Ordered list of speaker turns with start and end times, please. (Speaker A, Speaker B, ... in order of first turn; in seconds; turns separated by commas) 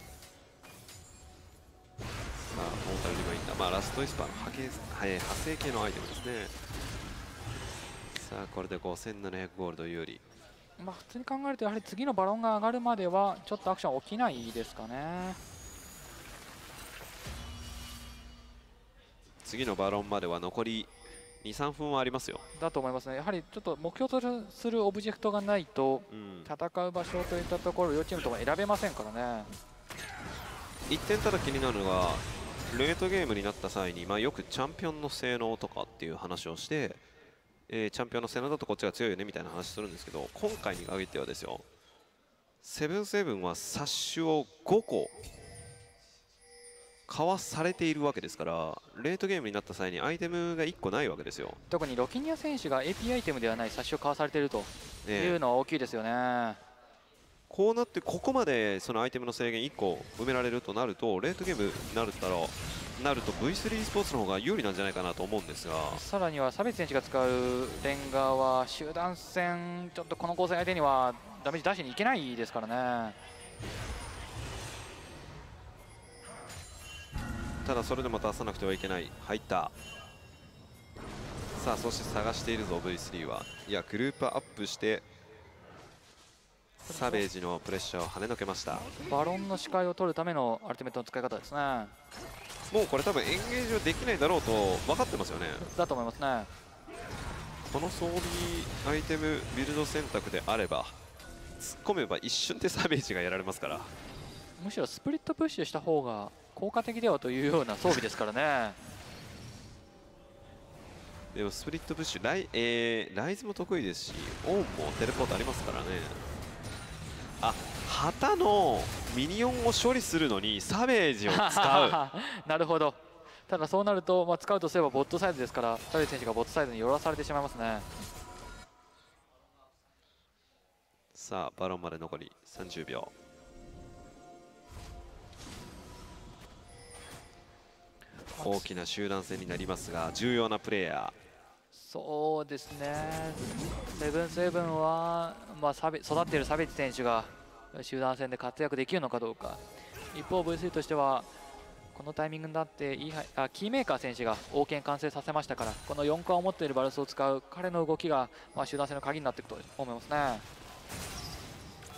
Speaker A: 2.5-6.5, Speaker A: 8.1-10.2, Speaker B: 10.8-15.4, Speaker A: 19.4-22.4, Speaker B: 22.6-29.5, Speaker A: 26.1-26.5, Speaker A: 30.9-37.0, Speaker A: 37.7-41.6, Speaker A: 42.6-45.1, Speaker A: 47.1-51.6, Speaker B: 51.7-56.6, Speaker A: 55.0-55.4, Speaker A: 57.5-66.0, Speaker B: 65.9-73.2, Speaker A: 77.6-79.7, Speaker A: 81.5-85.0, Speaker A: 86.8-88.9, Speaker B: 86.9-87.3, Speaker B: 89.1-91.9, Speaker A: 92.7-95.7, Speaker B: 95.6-96.5, Speaker A: 97.7-101.0, Speaker A: 101.6-103.9, Speaker B: 104.6-108.8, Speaker A: 111.3-116.2, Speaker A: 117.4-122.0, Speaker B: 121.3-127.8, Speaker A: 131.1-133.1, Speaker B: 138.3-138.7, Speaker A: 138.4-141.1, Speaker B: 141.7-149.6, Speaker B: 150.1-151.3, Speaker B: 151.9-160.4